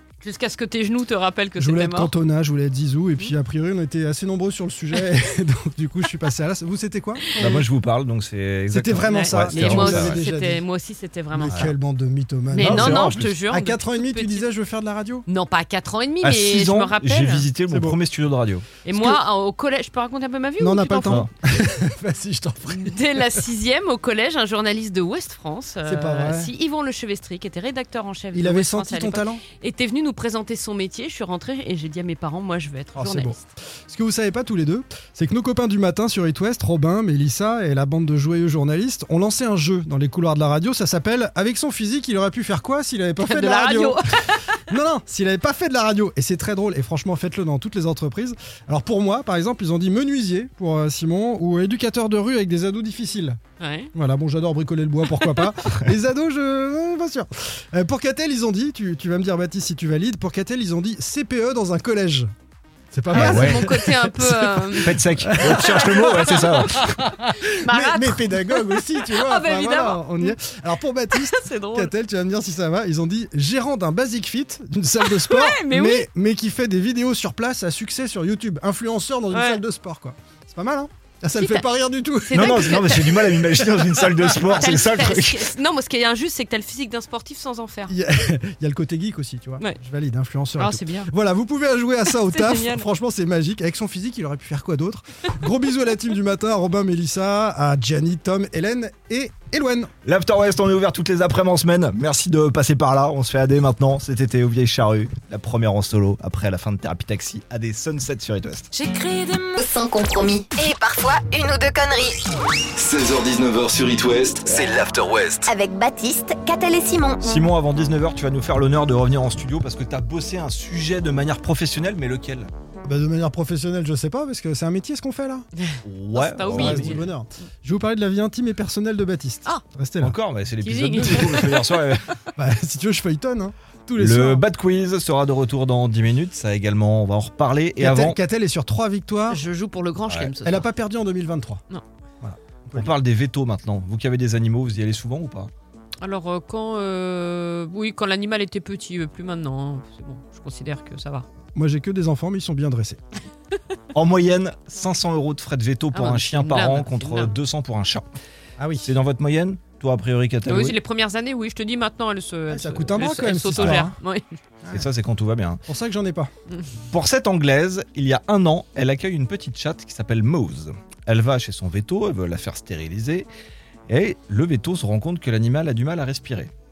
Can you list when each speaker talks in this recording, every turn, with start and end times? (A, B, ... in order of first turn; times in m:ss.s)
0:00.2-0:02.1 A
0:01.6-0:07.7 B
0:07.4-0:10.2 C
0:08.7-0:10.6 B
0:09.1-0:11.7 A
0:11.3-0:15.3 B
0:12.5-0:14.5 A
0:12.6-0:13.4 C
0:15.3-0:17.5 A
0:16.2-0:18.7 C
0:17.7-0:18.0 B
0:18.8-0:21.2 A
0:18.9-0:19.2 B
0:20.6-0:23.5 B
0:21.0-0:21.3 C
0:22.7-0:33.4 A
0:25.8-0:26.5 B
0:28.3-0:29.4 B
0:33.0-0:44.0 B
0:43.2-0:44.6 A
0:44.7-0:53.4 B
0:53.6-0:53.9 A
0:53.9-1:02.3 B
1:02.9-1:24.2 B
1:03.1-1:10.4 A
1:03.1-1:03.6 C
1:04.8-1:06.8 C
1:11.1-1:11.9 A
1:15.0-1:16.1 A
1:19.3-1:19.6 A
1:21.4-1:21.7 A
1:22.2-1:23.2 A
1:22.3-1:25.6 C
1:24.5-1:28.0 A
1:27.9-1:39.9 B
1:30.6-1:31.1 A
1:32.1-1:32.9 A
1:40.1-1:48.7 C
1:48.7-1:49.6 A
1:49.6-1:52.2 D
1:52.8-1:55.5 E
1:55.5-1:57.2 D
1:57.2-2:02.5 C
2:02.8-2:05.5 B
2:05.6-2:07.1 A
2:05.8-2:07.0 C
2:06.5-2:10.2 B
2:10.0-2:12.1 C
2:10.6-2:12.0 A
2:12.4-2:14.5 B
2:14.0-2:18.2 C
2:17.8-2:19.4 B
2:19.3-2:20.7 A
2:20.1-2:20.3 C
2:20.4-2:21.6 B
2:22.2-2:22.9 B
2:22.8-2:25.5 C
2:26.0-2:31.3 A
2:31.6-2:33.0 B
2:33.9-2:38.1 C
2:35.9-2:37.4 A
2:38.6-2:38.9 B
2:38.8-2:40.8 C
2:40.5-2:44.3 A
2:42.5-2:43.9 B
2:43.6-2:43.8 C
2:44.7-2:45.6 C
2:45.7-2:46.3 B
2:46.9-2:53.3 C
2:53.9-2:56.5 C